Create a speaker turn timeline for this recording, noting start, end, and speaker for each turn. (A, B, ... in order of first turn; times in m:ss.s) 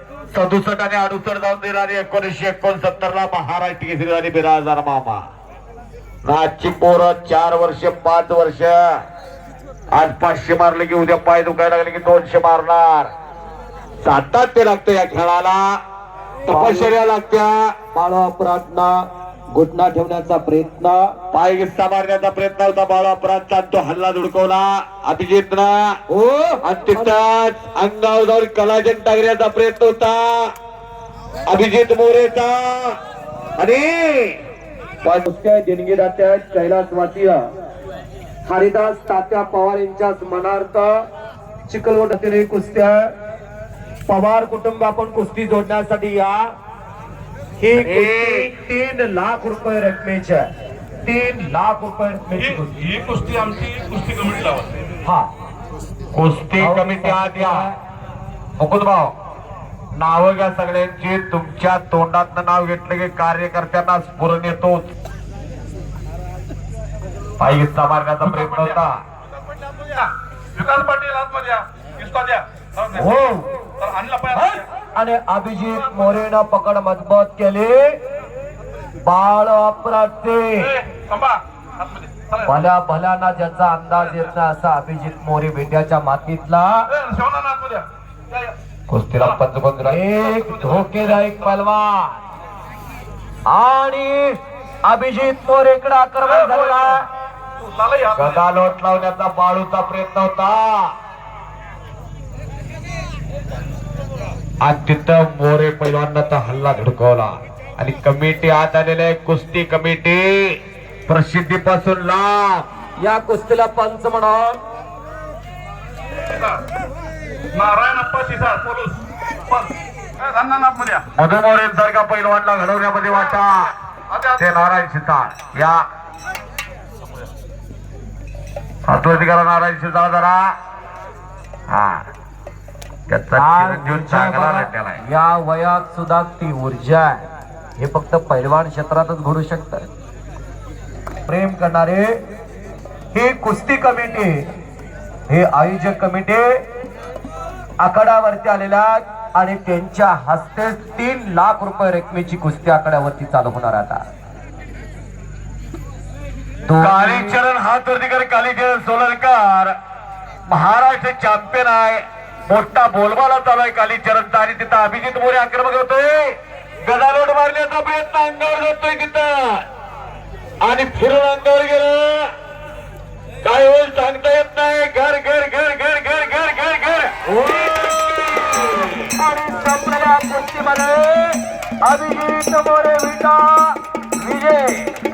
0:00.3-0:05.2 A
0:06.2-0:08.8 A
0:09.9-0:13.1 A
0:14.0-0:15.8 A
0:16.5-0:17.5 A
0:16.5-0:16.9 B
0:17.9-0:18.9 B
0:19.5-0:21.2 B
0:21.3-0:25.9 A
0:26.1-0:27.2 B
0:26.6-0:30.4 A
0:31.5-0:32.9 A
0:33.6-0:34.3 A
0:35.0-0:37.4 B
0:38.4-0:40.9 B
0:41.7-0:43.0 B
0:44.1-0:46.4 B
0:47.6-0:50.5 B
0:47.8-0:48.5 A
0:51.0-0:52.8 B
0:52.4-0:54.8 C
0:56.1-0:57.6 A
0:56.6-0:57.8 B
0:58.6-0:59.1 A
1:00.0-1:04.9 A
1:07.4-1:09.0 A
1:08.2-1:08.8 C
1:09.9-1:13.2 C
1:13.0-1:13.5 B
1:13.8-1:14.7 C
1:14.4-1:18.0 B
1:15.7-1:16.2 C
1:19.0-1:20.7 B
1:20.6-1:22.7 C
1:22.4-1:26.9 B
1:26.9-1:28.6 C
1:28.9-1:30.0 A
1:29.9-1:32.2 B
1:30.1-1:31.5 C
1:33.5-1:37.0 B
1:36.2-1:37.0 C
1:37.6-1:38.5 C
1:38.2-1:40.8 A
1:44.6-1:50.6 A
1:51.1-1:52.7 A
1:53.0-1:54.6 B
1:56.3-1:56.6 C
1:57.5-2:01.0 C
2:01.2-2:03.7 A
2:03.0-2:04.5 C
2:04.4-2:05.8 A
2:08.9-2:10.5 A
2:11.7-2:12.0 A
2:13.1-2:15.0 A
2:13.4-2:17.3 B
2:17.8-2:19.9 B
2:21.3-2:22.1 B
2:23.1-2:24.5 B
2:25.3-2:26.5 B
2:27.8-2:34.0 B
2:36.6-2:37.4 B
2:36.8-2:39.7 A
2:40.5-2:49.6 A
2:50.6-2:52.3 A
2:53.4-2:58.9 A
2:57.3-2:58.6 B
2:59.1-3:04.9 B